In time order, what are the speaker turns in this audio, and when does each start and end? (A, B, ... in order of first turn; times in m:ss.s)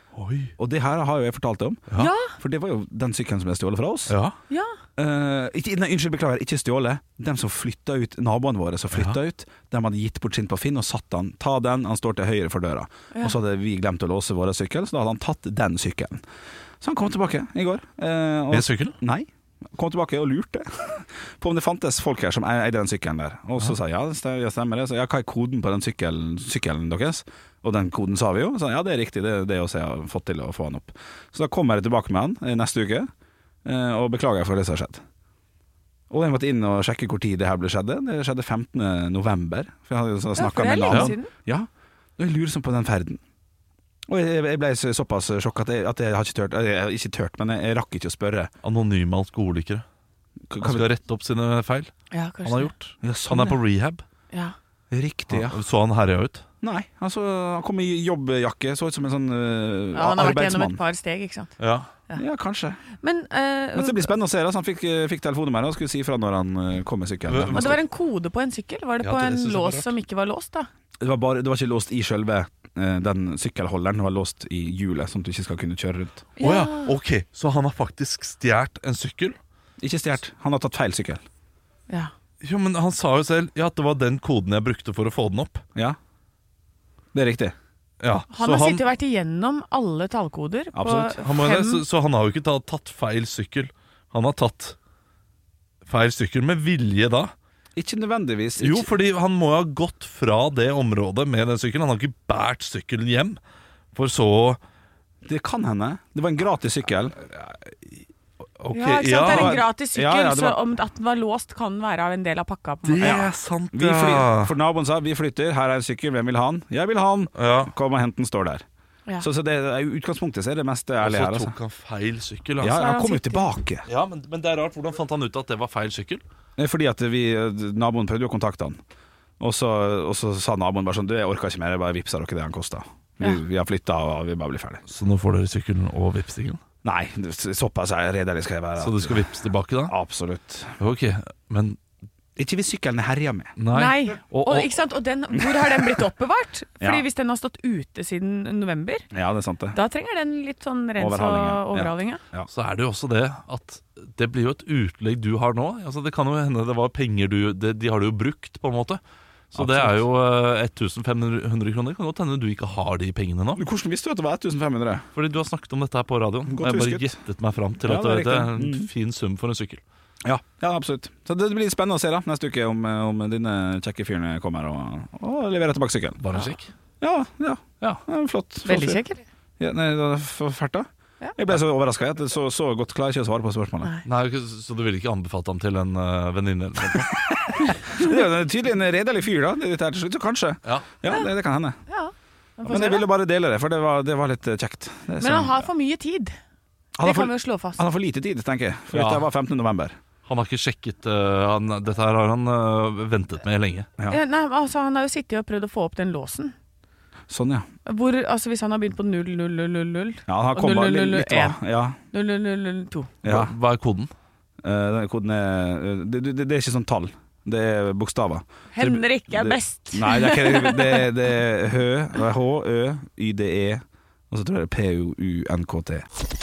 0:00.2-0:00.5 A
0:00.6-0:04.2 B
0:02.0-0:02.3 C
0:04.1-0:04.4 A
0:04.5-0:04.7 C
0:05.0-0:16.2 B
0:16.8-0:33.1 B
0:18.5-0:19.0 A
0:33.6-0:35.0 B
0:36.1-0:43.2 B
0:40.4-0:41.3 C
0:40.9-0:41.2 A
0:44.1-0:48.5 B
0:48.6-0:49.8 A
0:50.5-0:50.9 B
0:50.6-0:54.0 A
0:52.1-0:52.7 C
0:53.0-0:53.6 B
0:54.9-0:55.6 B
0:55.3-0:56.4 A
0:56.6-1:00.8 B
0:59.9-1:01.5 C
1:01.6-1:01.9 A
1:02.2-1:02.8 B
1:03.0-1:04.1 C
1:03.7-1:07.8 B
1:07.3-1:07.8 A
1:07.5-1:10.7 C
1:09.0-1:09.9 A
1:11.0-1:16.3 B
1:16.4-1:16.9 C
1:16.4-1:19.4 A
1:19.8-1:21.2 B
1:22.4-1:25.6 A
1:27.1-1:27.6 B
1:28.0-1:28.8 A
1:28.3-1:31.8 C
1:30.7-1:31.2 B
1:31.2-1:34.8 A
1:35.9-1:37.3 A
1:37.8-1:38.9 B
1:38.6-1:43.4 A
1:43.9-1:44.6 A
1:45.2-1:47.2 B
1:48.6-1:49.6 A
1:48.7-1:53.2 C
1:49.2-1:50.6 B
1:52.8-1:54.5 A
1:53.0-1:58.6 B
1:57.4-1:57.7 A
1:59.2-2:01.6 B
2:01.0-2:02.9 A
2:02.6-2:03.9 B
2:02.8-2:03.4 C
2:03.9-2:06.2 A
2:06.6-2:08.8 B
2:09.4-2:14.8 B
2:14.9-2:16.6 A
2:16.8-2:19.2 B
2:18.8-2:20.0 A
2:19.8-2:20.8 B
2:20.8-2:21.8 A
2:22.4-2:23.6 B
2:23.6-2:24.7 A
2:23.7-2:29.1 C
2:29.1-2:29.8 B
2:29.7-2:32.2 C
2:31.0-2:32.5 B
2:32.5-2:39.0 A
2:39.5-2:43.6 A
2:39.5-2:40.1 B
2:43.6-2:45.1 B
2:45.2-2:49.8 A
2:46.5-2:47.1 B
2:47.8-2:48.9 B
2:50.2-2:56.2 B
2:56.2-2:56.7 A
2:57.0-2:59.0 B
2:58.7-2:59.2 C
2:59.6-3:03.9 B
3:04.0-3:07.1 A
3:06.9-3:11.8 B
3:10.6-3:10.9 A
3:11.9-3:13.1 C
3:12.6-3:15.6 B
3:15.2-3:16.4 C
3:17.0-3:20.0 B
3:17.0-3:17.8 C
3:18.9-3:19.2 A
3:20.3-3:23.9 A
3:24.1-3:26.5 C
3:27.3-3:27.7 B
3:27.9-3:31.6 C
3:30.3-3:32.0 B
3:32.1-3:33.1 C
3:33.2-3:33.5 B
3:33.2-3:34.1 A
3:34.6-3:46.0 B
3:38.7-3:41.1 C